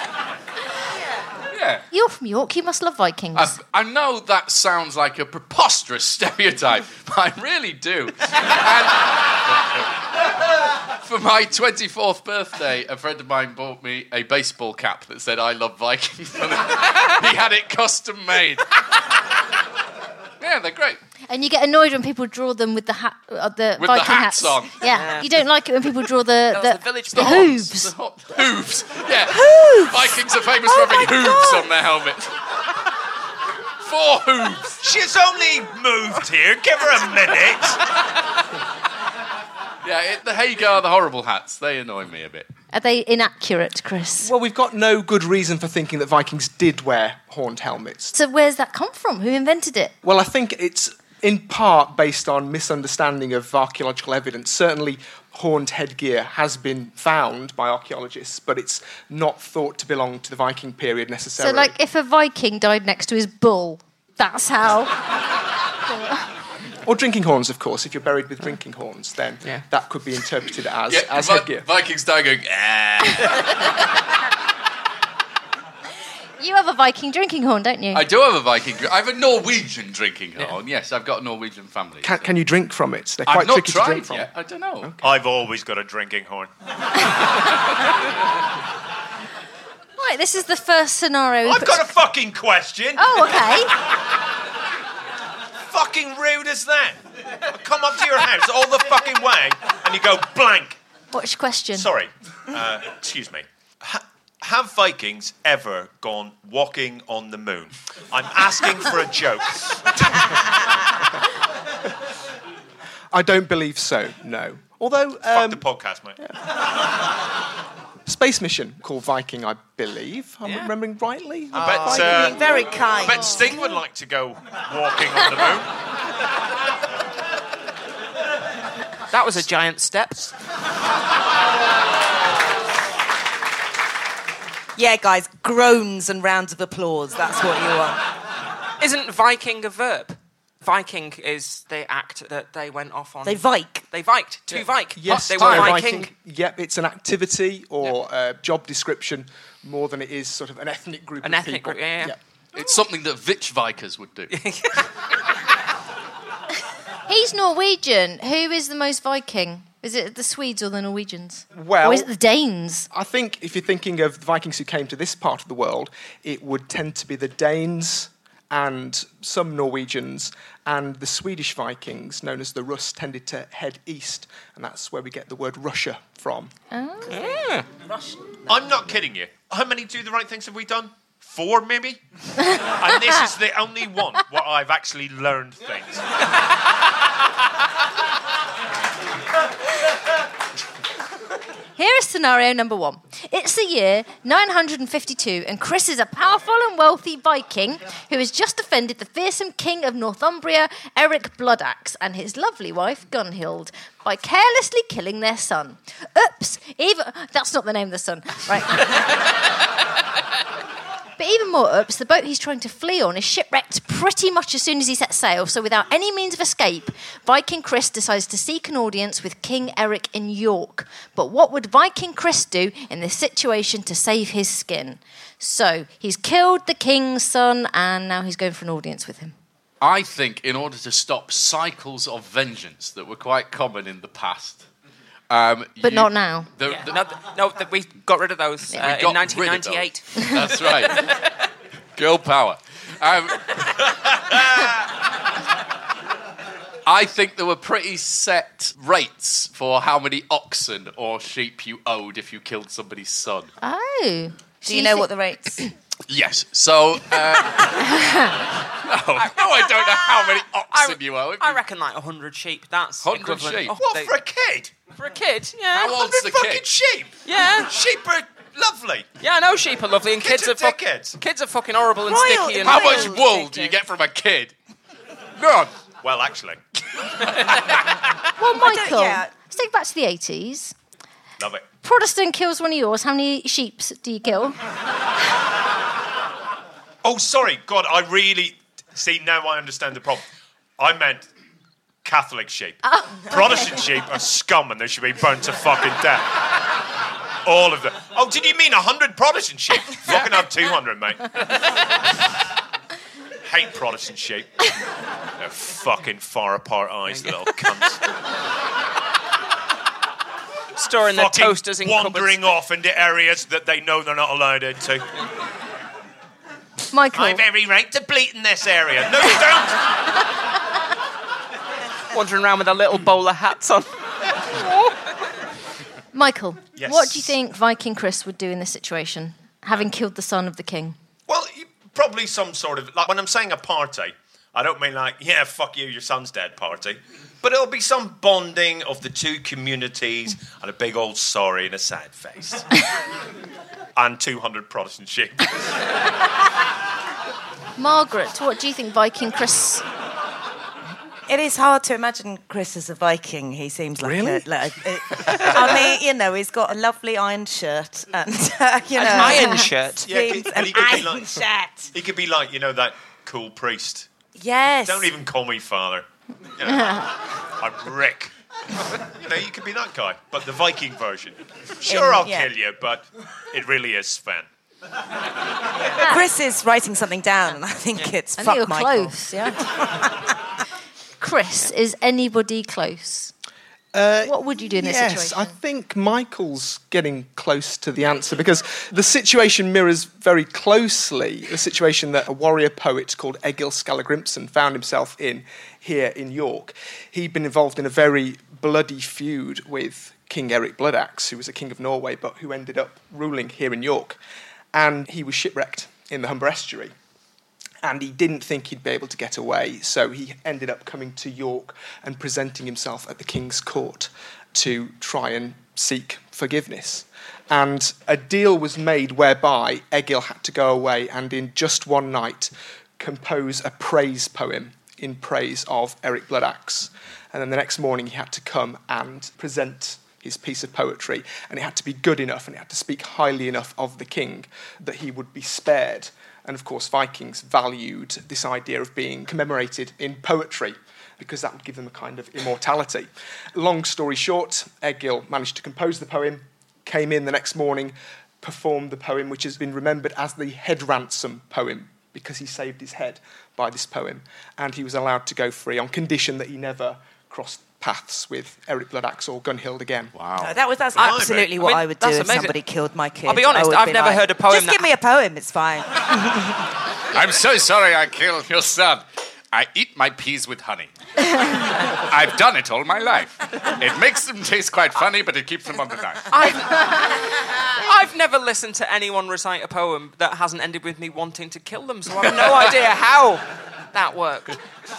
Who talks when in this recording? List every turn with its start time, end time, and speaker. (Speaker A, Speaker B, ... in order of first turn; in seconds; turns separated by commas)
Speaker A: 1.5-1.8, Speaker B: 1.9-3.5, Speaker A: 3.3-9.8, Speaker A: 11.0-18.8, Speaker A: 20.4-21.0, Speaker B: 21.3-27.9, Speaker A: 23.8-24.7, Speaker C: 24.9-25.4, Speaker C: 26.5-27.4, Speaker A: 27.1-32.3, Speaker D: 29.3-30.1, Speaker D: 30.8-31.6, Speaker A: 33.8-34.8, Speaker E: 34.8-37.8, Speaker A: 39.8-42.5, Speaker B: 42.7-44.3, Speaker F: 44.2-48.1, Speaker B: 48.1-49.9, Speaker F: 50.0-61.7, Speaker B: 61.4-65.0, Speaker F: 66.8-71.7, Speaker A: 70.9-73.7, Speaker B: 76.4-78.0, Speaker A: 77.9-82.3, Speaker F: 82.0-85.0, Speaker A: 83.2-84.9, Speaker E: 85.0-86.5, Speaker B: 90.0-91.8, Speaker E: 91.4-93.8, Speaker B: 93.0-93.7, Speaker E: 95.7-100.8, Speaker B: 101.1-101.9, Speaker E: 101.7-109.8, Speaker F: 113.1-115.7, Speaker E: 115.3-116.2, Speaker F: 118.0-122.2, Speaker C: 120.4-120.7, Speaker D: 121.5-123.5, Speaker E: 121.5-125.7, Speaker C: 129.1-130.3, Speaker D: 134.8-138.0, Speaker C: 138.8-146.1, Speaker D: 143.2-143.8, Speaker F: 144.5-152.2, Speaker C: 151.2-152.2, Speaker A: 152.5-154.4, Speaker C: 154.3-154.9, Speaker B: 157.1-162.9, Speaker F: 161.5-162.1, Speaker F: 162.9-176.5, Speaker B: 176.7-177.2, Speaker C: 177.1-177.7, Speaker E: 178.5-186.1, Speaker B: 191.8-209.0, Speaker B: 211.2-229.3, Speaker A: 229.8-234.6, Speaker A: 235.3-237.0, Speaker B: 235.8-236.5, Speaker C: 236.7-240.3, Speaker A: 238.7-241.1, Speaker C: 240.9-241.2, Speaker A: 241.9-243.6, Speaker A: 246.8-253.5, Speaker B: 253.6-255.1, Speaker D: 254.6-255.7, Speaker A: 256.1-258.0, Speaker B: 258.0-258.3, Speaker A: 258.7-261.6, Speaker C: 259.1-264.1, Speaker A: 263.0-263.8, Speaker E: 263.7-264.7, Speaker C: 264.9-265.9, Speaker A: 265.7-266.7, Speaker E: 265.9-269.1, Speaker C: 267.2-267.7, Speaker C: 269.2-273.1, Speaker E: 270.2-271.2, Speaker D: 272.0-273.7, Speaker A: 272.6-274.5, Speaker A: 275.4-275.7, Speaker E: 276.0-276.6, Speaker B: 278.4-280.7, Speaker D: 278.4-279.3, Speaker E: 281.4-281.6, Speaker B: 281.8-284.6, Speaker E: 287.0-290.2, Speaker E: 290.8-291.3, Speaker E: 292.0-296.4, Speaker B: 292.8-293.7, Speaker E: 297.4-301.4, Speaker E: 303.4-304.7, Speaker E: 305.4-308.0, Speaker C: 307.1-307.6, Speaker C: 310.8-312.5, Speaker E: 311.1-315.1, Speaker B: 316.9-317.4, Speaker E: 317.1-319.9, Speaker C: 322.1-324.0, Speaker B: 326.1-330.9, Speaker E: 326.8-327.3, Speaker E: 331.3-342.8, Speaker E: 343.9-345.4, Speaker B: 347.8-349.8, Speaker D: 351.3-361.9, Speaker F: 354.0-354.4, Speaker C: 358.9-360.1, Speaker E: 360.1-361.4, Speaker E: 361.9-364.1, Speaker D: 364.3-365.1, Speaker E: 364.8-366.1, Speaker E: 366.6-368.3, Speaker E: 369.1-374.5, Speaker D: 371.8-372.5, Speaker D: 375.8-379.2, Speaker B: 376.0-376.2, Speaker B: 378.4-379.7, Speaker D: 379.9-380.2, Speaker B: 381.2-383.3, Speaker F: 383.9-404.2, Speaker B: 384.2-385.6, Speaker F: 404.7-406.9, Speaker F: 407.8-460.1, Speaker A: 460.1-460.5, Speaker D: 460.4-466.5, Speaker E: 460.9-461.5, Speaker C: 461.0-462.6, Speaker C: 463.2-464.9, Speaker A: 467.1-470.9, Speaker A: 471.9-476.3, Speaker C: 476.3-484.6